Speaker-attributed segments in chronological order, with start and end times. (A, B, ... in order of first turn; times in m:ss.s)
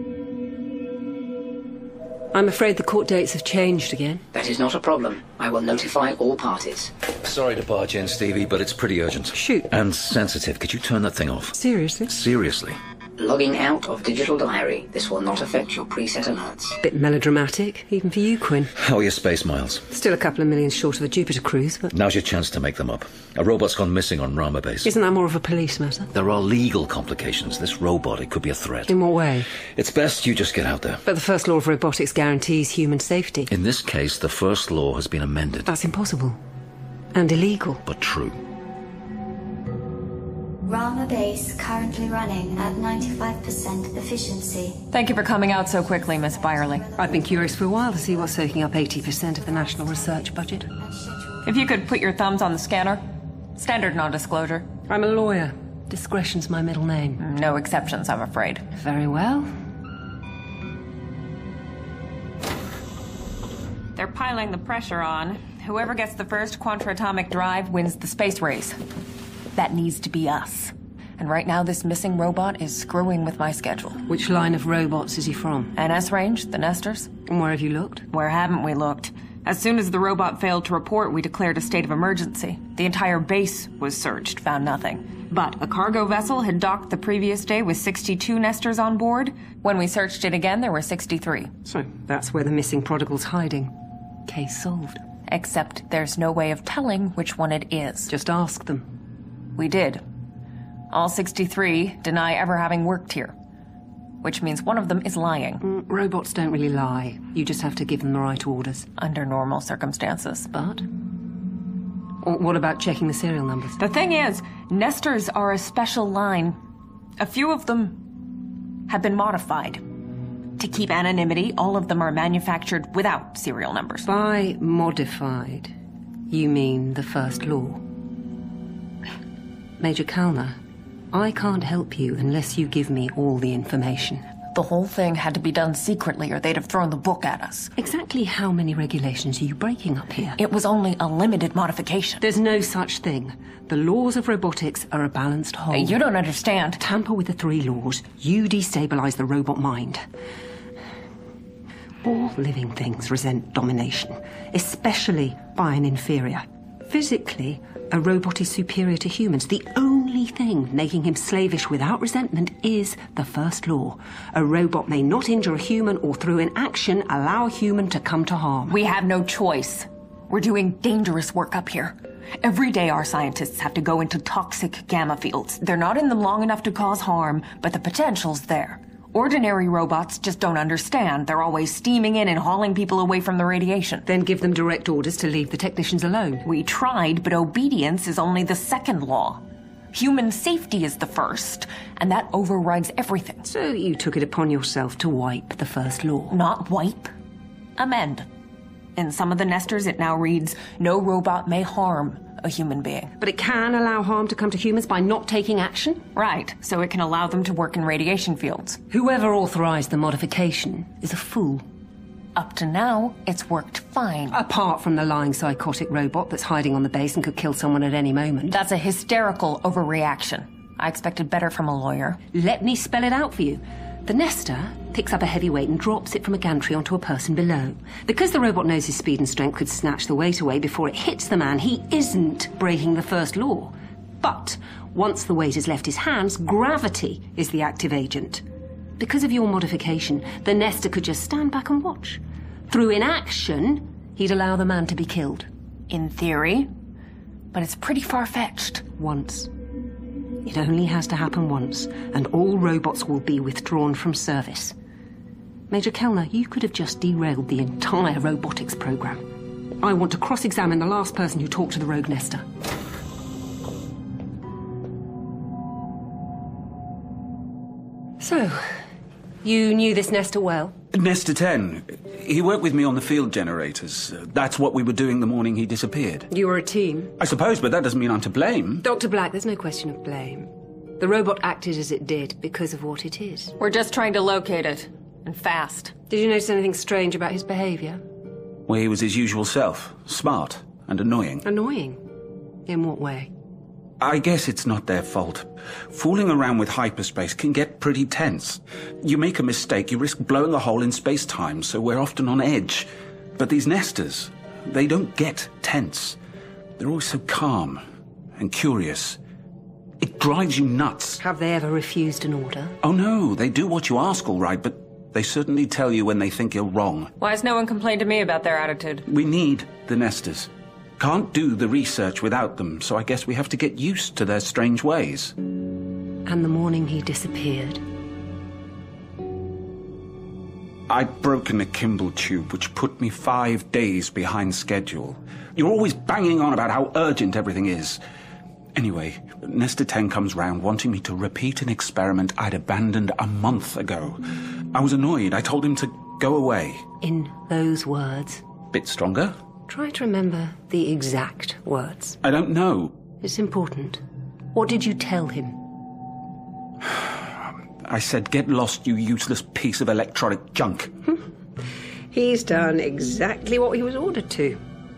0:02.3-0:04.2 A
0:04.3-0:06.9 B
0:07.2-0:12.8 C
0:09.3-0:09.7 A
0:11.5-0:12.1 A
0:13.2-0:16.8 B
0:16.8-0:18.7 A
0:18.8-0:19.8 C
0:19.9-0:21.9 A
0:21.9-0:25.0 C
0:24.8-0:26.1 A
0:26.1-0:28.9 C
0:28.9-0:29.5 A
0:29.8-0:31.0 C
0:31.0-0:33.5 A
0:33.5-0:35.7 C
0:35.6-0:36.4 A
0:37.1-0:37.8 A
0:37.8-0:38.4 C
0:40.6-0:44.8 D
0:44.9-0:46.8 E
0:46.1-0:48.3 D
0:47.0-0:50.7 A
0:49.6-0:50.2 D
0:50.8-0:51.5 D
0:51.4-0:53.0 E
0:53.6-0:54.7 E
0:54.9-0:57.2 A
0:57.2-0:58.6 E
0:58.8-0:59.5 A
1:04.0-1:08.8 E
1:09.6-1:14.0 E
1:14.1-1:15.7 A
1:15.8-1:17.1 E
1:17.3-1:18.0 A
1:18.1-1:31.5 E
1:31.6-1:33.7 A
1:34.3-1:35.0 A
1:35.3-1:38.1 E
1:38.1-1:38.8 A
1:39.6-1:40.0 E
1:40.9-1:43.3 E
1:44.2-1:45.6 E
1:45.6-1:48.9 A
1:49.0-1:50.5 E
1:50.5-1:50.8 A
1:52.2-1:53.8 A
1:53.8-1:56.6 E
1:57.2-1:58.0 E
1:58.9-1:59.8 E
2:00.6-2:04.1 E
2:04.0-2:05.7 A
2:06.3-2:07.8 A
2:09.8-2:10.6 A
2:11.1-2:14.2 A
2:14.5-2:17.7 E
2:17.8-2:20.4 A
2:20.4-2:22.2 E
2:22.2-2:26.0 A
2:25.7-2:26.8 E
2:26.8-2:30.0 A
2:32.0-2:48.8 A
2:48.7-3:04.0 E
3:04.0-3:06.4 A
3:06.4-3:09.4 E
3:09.9-3:13.5 E
3:13.5-3:16.4 A
3:16.3-3:17.1 E
3:17.8-3:18.3 E
3:19.0-3:23.1 E
3:23.2-3:26.0 A
3:26.2-3:28.8 E
3:28.9-3:31.6 A
3:32.3-3:34.4 E
3:34.3-3:38.5 A
3:38.5-3:42.2 E
3:42.3-3:58.4 A
3:59.0-4:05.5 A
4:05.9-4:06.7 E
4:07.5-4:08.8 E
4:09.0-4:09.5 A
4:10.4-4:14.7 A
4:15.7-4:19.2 A
4:19.8-4:22.4 A
4:28.2-4:28.6 A
4:29.4-4:30.7 A
4:30.9-4:36.3 F
4:36.3-4:37.1 A
4:37.2-4:38.8 F
4:38.8-4:40.5 A
4:41.0-4:43.5 A
4:43.6-4:45.9 E
4:46.1-4:48.0 A
4:48.7-4:51.4 F
4:51.4-4:52.0 A
4:52.6-4:53.3 A
4:54.0-5:06.2 F
5:06.8-5:07.8 F
5:08.4-5:09.2 F
5:10.0-5:11.2 F
5:11.2-5:12.8 A
5:12.8-5:17.1 F
5:17.2-5:19.0 E
5:19.1-5:25.3 F
5:26.2-5:27.8 A
5:30.9-5:38.0 F
5:38.7-5:44.2 F
5:44.7-5:46.8 F
5:47.0-5:48.4 A
5:48.7-5:49.4 F
5:49.7-5:52.2 A
5:52.2-5:52.9 F
5:53.2-5:54.0 A
5:54.5-5:55.6 A
5:57.8-6:00.9 F
6:02.1-6:04.6 A